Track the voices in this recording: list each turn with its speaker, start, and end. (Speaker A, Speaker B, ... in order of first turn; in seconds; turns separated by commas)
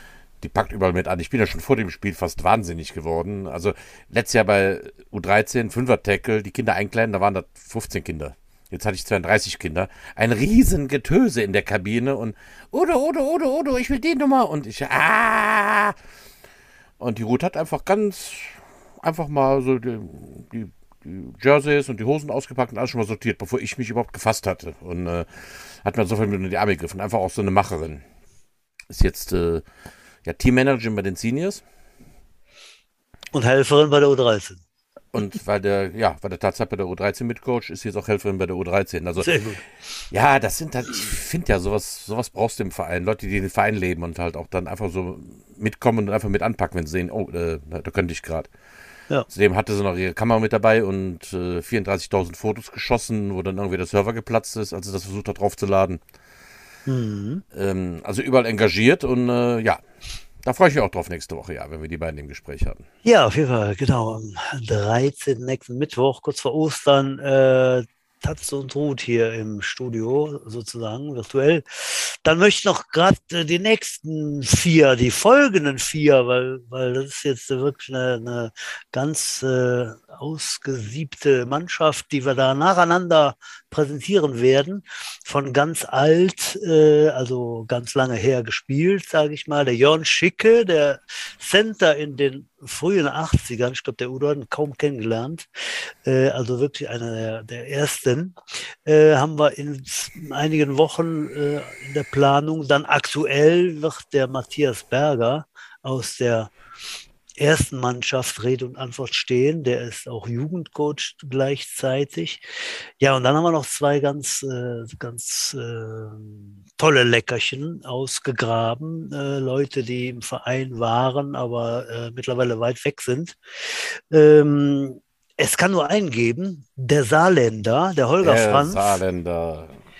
Speaker A: 0.4-15.9, Speaker A: 17.0-28.0, Speaker A: 28.9-29.6, Speaker A: 30.2-31.6, Speaker B: 33.3-34.6, Speaker A: 35.1-39.3, Speaker B: 39.2-39.6, Speaker A: 40.1-48.5, Speaker A: 49.3-56.0, Speaker B: 56.9-57.4, Speaker A: 57.5-59.8, Speaker A: 60.4-62.8, Speaker B: 63.0-106.5, Speaker B: 107.4-129.0, Speaker A: 128.2-129.8